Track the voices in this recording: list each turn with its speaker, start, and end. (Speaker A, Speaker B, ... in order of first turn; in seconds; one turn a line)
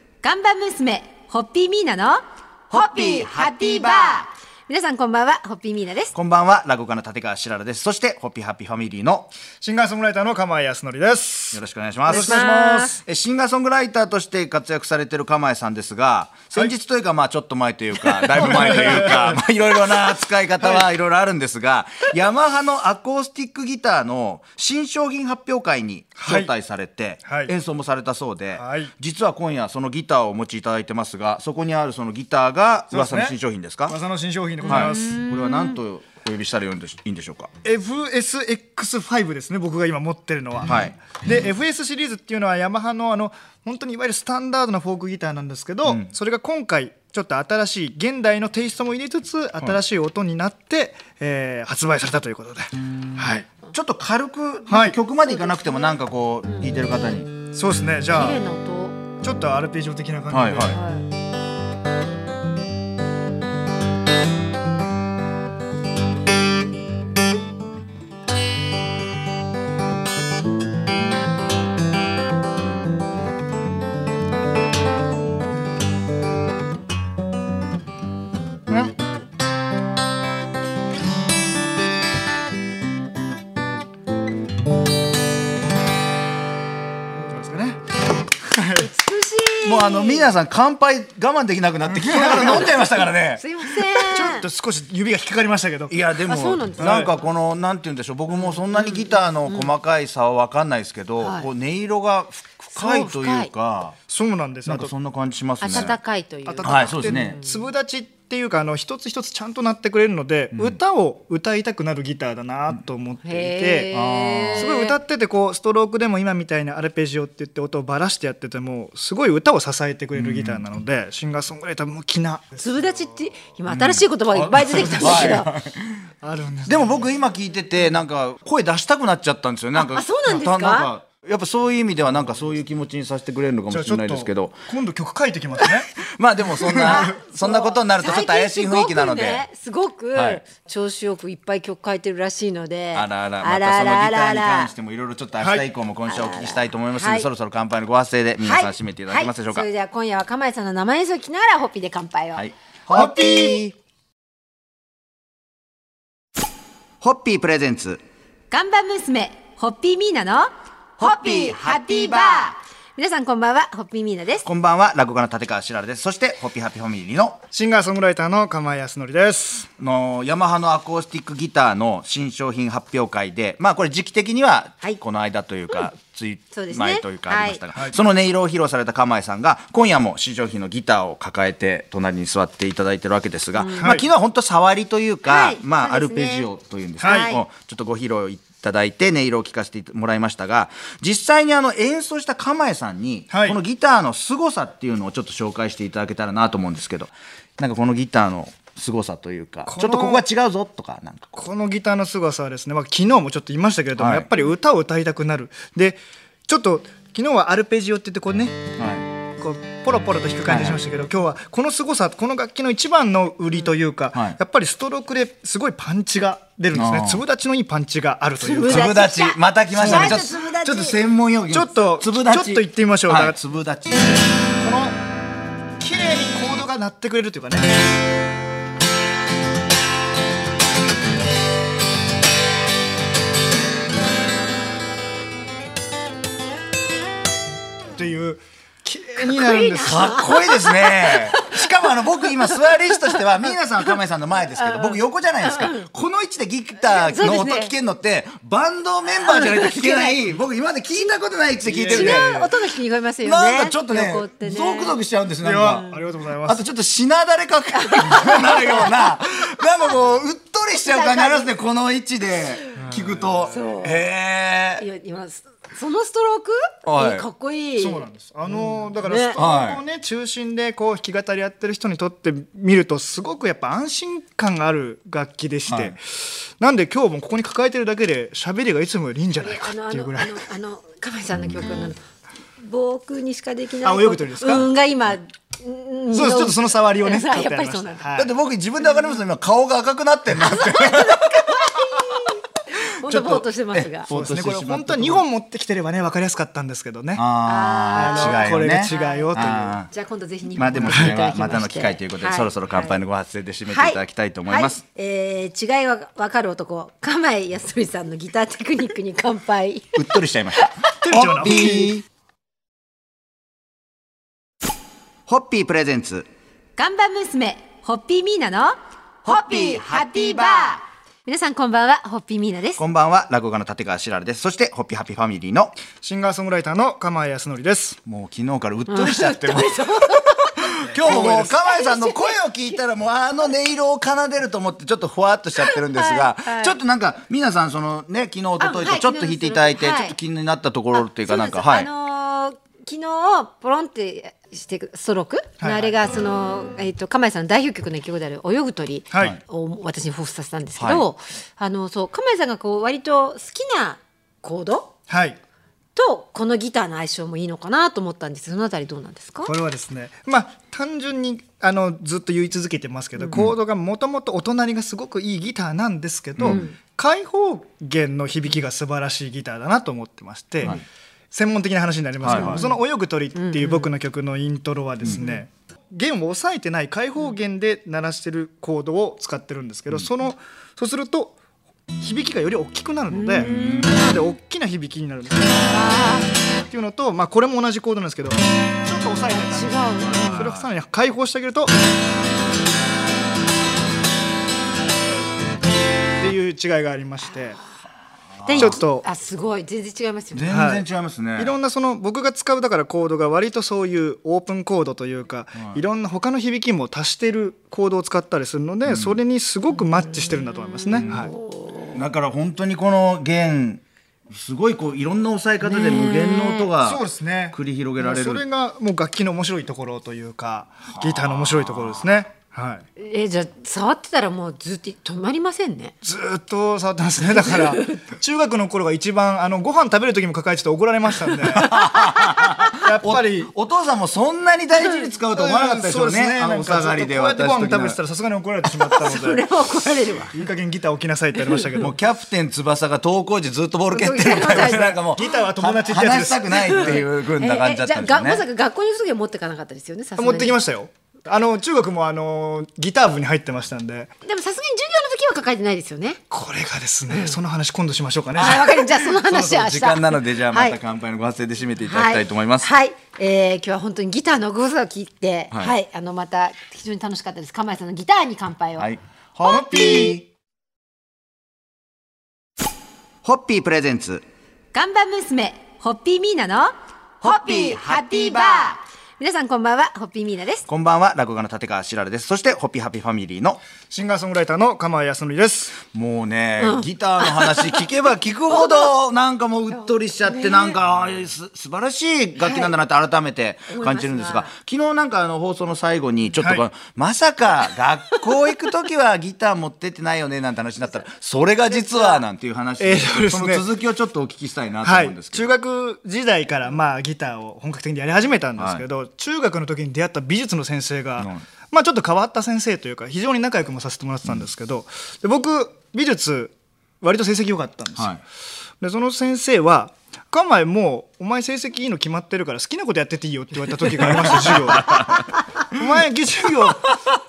Speaker A: 0.2-6.1
Speaker B: 6.1-9.3
Speaker C: 9.6-13.0
Speaker B: 11.5-34.0
Speaker A: 12.1-12.9
Speaker C: 18.1-19.4
Speaker C: 20.6-20.9
Speaker C: 26.2-26.5
Speaker C: 27.3-27.5
Speaker C: 28.5-28.9
Speaker C: 32.9-35.2
Speaker A: 34.6-35.8
Speaker B: 34.7-37.5
Speaker C: 37.6-53.5
Speaker B: 40.7-41.0
Speaker B: 53.7-57.3
Speaker C: 54.7-55.0
Speaker A: 55.1-56.8
Speaker C: 57.5-58.4
Speaker A: 58.1-59.0
Speaker C: 59.2-60.8
Speaker B: 60.3-60.8
Speaker A: 60.7-61.1
Speaker C: 87.2-87.8
Speaker C: 88.5-88.9
Speaker A: 88.8-90.3
Speaker B: 89.6-94.3
Speaker C: 92.0-92.5
Speaker A: 92.4-94.5
Speaker C: 94.1-96.0
Speaker B: 95.9-104.0
Speaker A: 96.3-97.3
Speaker C: 96.8-97.1
Speaker A: 98.3-99.8
Speaker A: 101.2-101.5
Speaker A: 102.7-103.5
Speaker C: 104.1-104.9
Speaker B: 104.7-106.0
Speaker A: 105.6-107.7
Speaker C: 105.7-113.9
Speaker B: 106.6-107.4
Speaker A: 113.2-115.0
Speaker B: 113.9-114.7
Speaker C: 114.6-122.6
Speaker B: 120.1-120.6
Speaker A: 122.6-125.5
Speaker B: 123.7-125.8
Speaker C: 124.7-125.4
Speaker C: 126.2-127.1
Speaker B: 126.7-134.6
Speaker A: 129.8-130.9
Speaker C: 133.7-135.9
Speaker B: 136.2-139.4
Speaker C: 136.7-137.1
Speaker A: 136.7-144.7
Speaker B: 140.1-140.4
Speaker B: 142.9-149.7
Speaker C: 145.4-145.7
Speaker A: 146.1-147.3
Speaker A: 148.4-152.4
Speaker B: 152.3-153.8
Speaker C: 153.0-153.3
Speaker A: 153.0-153.6
Speaker B: 157.0-158.0
Speaker A: 158.5-164.5
Speaker B: 164.4-167.4
Speaker C: 167.5-169.7
Speaker B: 169.8-201.4
Speaker A: 176.5-177.6
Speaker A: 183.6-183.9
Speaker C: 183.8-184.1
Speaker A: 185.3-186.5
Speaker C: 187.0-187.3
Speaker A: 187.0-187.4
Speaker C: 193.3-193.6
Speaker C: 199.7-200.2
Speaker C: 201.3-208.6
Speaker B: 204.0-204.3
Speaker B: 208.8-209.1
Speaker C: 209.4-219.0
Speaker B: 210.4-210.8
Speaker B: 216.7-217.2
Speaker A: 218.4-221.0
Speaker B: 218.6-224.2
Speaker C: 219.7-220.3
Speaker C: 221.5-223.4
Speaker C: 224.6-225.0
Speaker C: 225.8-227.8
Speaker C: 237.9-239.9
Speaker A: 239.2-244.0
Speaker B: 239.6-252.3
Speaker A: 244.5-245.9
Speaker A: 246.9-247.7
Speaker A: 249.2-250.2
Speaker C: 251.7-252.6
Speaker A: 251.9-255.0
Speaker B: 253.2-255.8
Speaker C: 255.4-256.6
Speaker A: 255.7-256.0
Speaker B: 256.4-264.9
Speaker A: 257.7-259.0
Speaker A: 260.8-261.5
Speaker C: 263.0-263.4
Speaker A: 263.5-264.0
Speaker A: 264.8-269.4
Speaker B: 266.9-267.3
Speaker C: 267.8-280.4
Speaker B: 269.4-269.8
Speaker B: 275.7-275.9
Speaker A: 279.4-282.0
Speaker A: 282.6-288.1
Speaker C: 283.8-284.7
Speaker C: 286.1-288.3
Speaker B: 288.1-291.9
Speaker A: 290.3-294.1
Speaker B: 293.0-295.2
Speaker C: 294.1-297.2
Speaker B: 297.1-299.9
Speaker A: 297.4-303.0
Speaker C: 297.9-299.8
Speaker B: 300.6-304.8
Speaker C: 300.7-301.1
Speaker A: 303.7-310.0
Speaker B: 310.0-312.1
Speaker A: 310.6-311.0
Speaker C: 311.0-311.9
Speaker B: 315.3-316.3
Speaker A: 316.8-322.8
Speaker B: 322.8-325.8
Speaker C: 326.0-328.0
Speaker B: 328.1-341.9
Speaker A: 328.9-332.8
Speaker C: 331.0-331.5
Speaker A: 335.6-336.8
Speaker A: 338.6-340.2
Speaker A: 340.9-354.9
Speaker C: 345.6-346.0
Speaker C: 349.1-349.4
Speaker B: 350.8-351.1
Speaker C: 355.1-355.4
Speaker A: 356.0-359.5
Speaker C: 359.4-381.4
Speaker B: 366.4-366.6
Speaker A: 366.4-366.8
Speaker B: 372.2-372.7
Speaker A: 372.3-372.8
Speaker A: 373.4-373.9
Speaker A: 375.1-375.4
Speaker C: 382.0-385.9
Speaker A: 383.1-384.1
Speaker B: 383.4-384.0
Speaker A: 385.7-386.3
Speaker C: 386.7-391.7
Speaker A: 389.3-390.4
Speaker B: 390.0-390.7
Speaker C: 396.2-397.6
Speaker B: 398.4-398.8
Speaker A: 398.4-400.5
Speaker C: 398.5-399.1
Speaker B: 400.3-401.6
Speaker C: 400.5-411.3
Speaker B: 408.9-409.2
Speaker A: 409.8-412.0
Speaker B: 410.9-411.3
Speaker B: 411.9-418.4
Speaker A: 415.6-416.7
Speaker C: 416.8-422.9
Speaker B: 420.9-422.2
Speaker A: 423.0-425.9
Speaker C: 426.0-431.7
Speaker A: 427.2-428.1
Speaker B: 431.5-438.0
Speaker A: 431.6-432.5
Speaker C: 432.8-433.5
Speaker A: 434.8-435.1
Speaker C: 435.3-439.4
Speaker A: 438.7-440.4
Speaker C: 440.3-441.9
Speaker A: 441.4-441.7
Speaker B: 441.7-448.4
Speaker A: 443.9-445.0
Speaker C: 444.5-447.0
Speaker A: 446.5-450.6
Speaker C: 450.2-454.1
Speaker A: 454.2-456.2
Speaker C: 456.3-458.8
Speaker A: 457.1-457.4
Speaker A: 458.4-460.8
Speaker B: 458.4-462.7
Speaker A: 461.8-468.9
Speaker B: 468.8-470.3
Speaker A: 469.4-470.2
Speaker B: 473.2-474.2
Speaker A: 474.7-480.7
Speaker B: 480.7-483.6
Speaker C: 483.9-485.8
Speaker B: 485.9-505.5
Speaker A: 486.6-487.9
Speaker A: 489.7-490.8
Speaker A: 492.4-492.7
Speaker A: 493.7-494.5
Speaker A: 501.8-502.2
Speaker C: 502.8-503.7
Speaker C: 504.8-518.2
Speaker B: 508.6-508.8
Speaker B: 511.2-511.5
Speaker B: 518.0-518.2
Speaker C: 518.8-527.0
Speaker B: 524.1-525.3